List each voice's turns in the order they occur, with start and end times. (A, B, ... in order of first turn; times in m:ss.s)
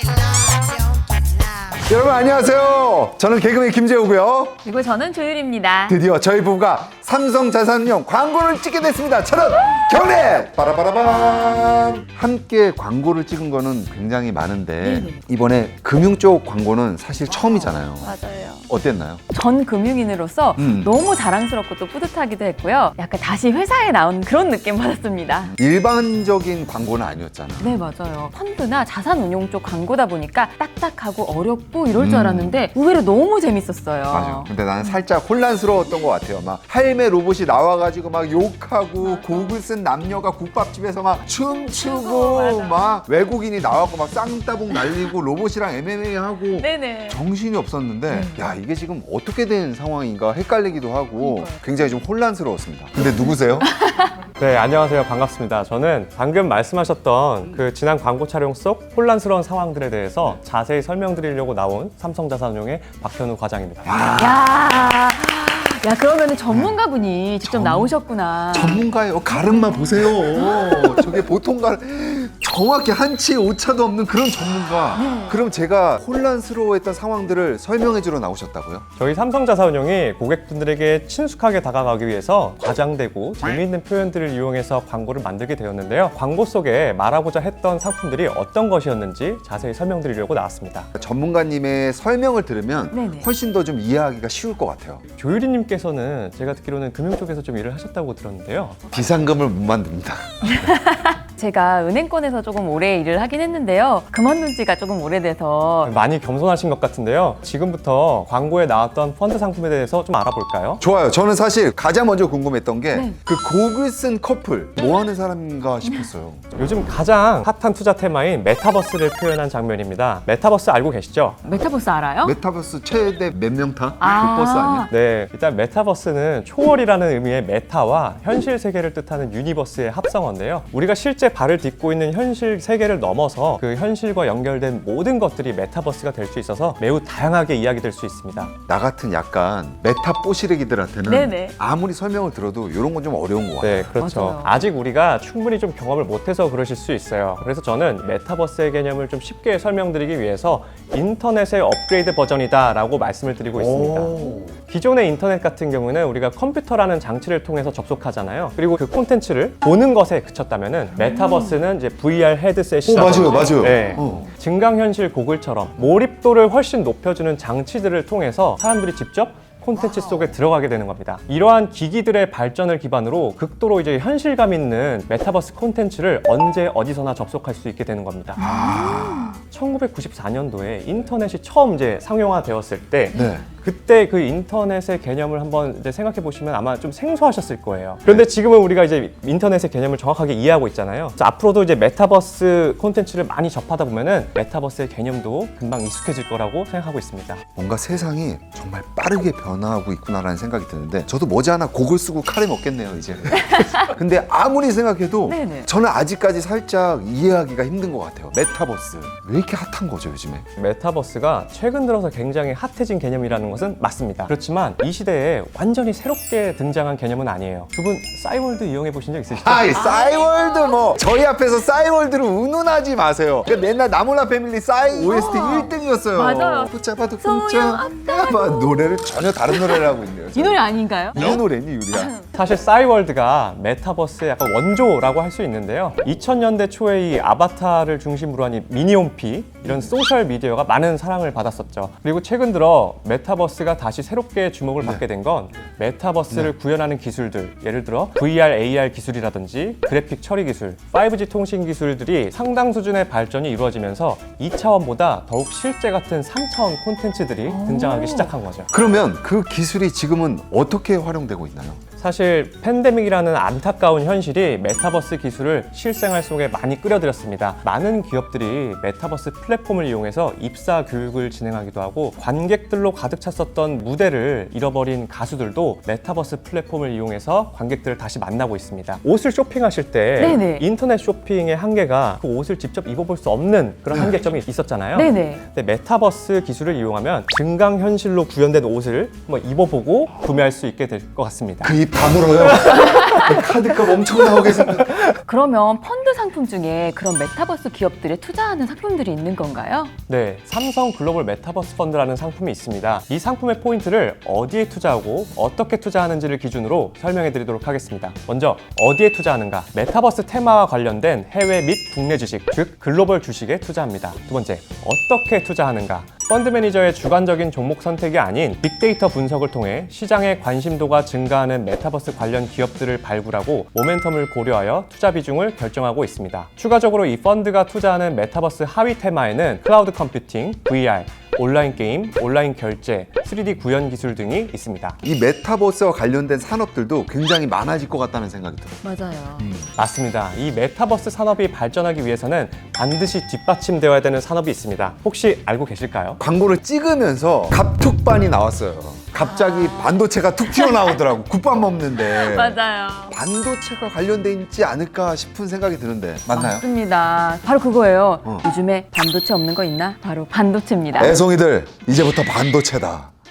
0:01.7-0:04.6 A
0:04.6-0:06.0 B
0:05.9-0:18.1 A
0:14.8-0:15.2 B
0:18.0-0:18.7 B
0:18.7-0:19.2 A
0:19.3-0:25.6 B
0:20.6-0:20.9 A
0:25.6-0:27.8 A
0:27.6-0:35.0 B
0:31.9-0:32.6 A
0:34.1-0:53.7 A
0:39.0-0:39.6 B
0:41.6-0:42.9 B
0:46.6-0:47.2 B
0:48.1-0:48.4 B
0:51.2-0:51.7 B
0:53.0-0:54.2 B
0:54.4-1:04.0 C
1:03.8-1:04.5 A
1:04.1-1:10.7 B
1:06.5-1:06.8 A
1:07.4-1:07.9 A
1:08.5-1:18.9 A
1:10.7-1:11.1 C
1:15.0-1:15.4 B
1:19.0-1:30.9 C
1:31.0-1:35.0 A
1:32.9-1:33.3 B
1:35.2-1:39.0 C
1:38.9-1:40.7 A
1:40.4-1:45.9 B
1:45.8-1:50.8 C
1:50.8-1:56.4 A
1:52.9-1:53.2 B
1:56.6-2:01.4 C
2:01.4-2:02.4 B
2:02.2-2:04.9 A
2:04.0-2:04.9 B
2:04.9-2:18.5 C
2:18.7-2:23.9 A
2:21.0-2:21.6 B
2:23.6-2:58.5 C
2:24.0-2:24.6 B
2:33.5-2:34.5 A
2:42.8-2:44.3 A
2:58.4-2:59.4 A
2:58.4-2:59.3 B
2:59.4-3:17.4 C
3:03.1-3:03.4 A
3:17.5-3:30.5 A
3:25.3-3:25.7 B
3:30.6-3:39.8 C
3:39.3-3:52.1 A
3:39.7-3:40.8 B
3:44.9-3:48.8 B
3:49.5-3:51.4 B
3:51.9-3:52.3 B
3:52.3-4:18.7 C
3:59.6-3:59.9 A
4:17.5-4:18.3 B
4:18.7-4:21.8 A
4:22.0-4:51.8 C
4:40.2-4:40.6 B
4:43.9-4:44.2 A
4:44.9-4:45.4 B
4:51.6-4:55.1 A
4:52.4-4:53.4 C
4:52.8-4:53.1 B
4:54.5-4:55.0 C
4:55.2-4:59.9 B
5:00.1-5:35.0 C
5:35.0-5:38.8 A
5:38.8-5:39.5 B
5:39.4-5:39.7 A
5:39.7-5:46.2 C
5:46.2-5:52.6 A
5:49.2-5:50.9 B
5:51.9-5:53.2 B
5:53.1-5:56.6 A
5:56.3-6:01.2 B
6:01.0-6:03.1 A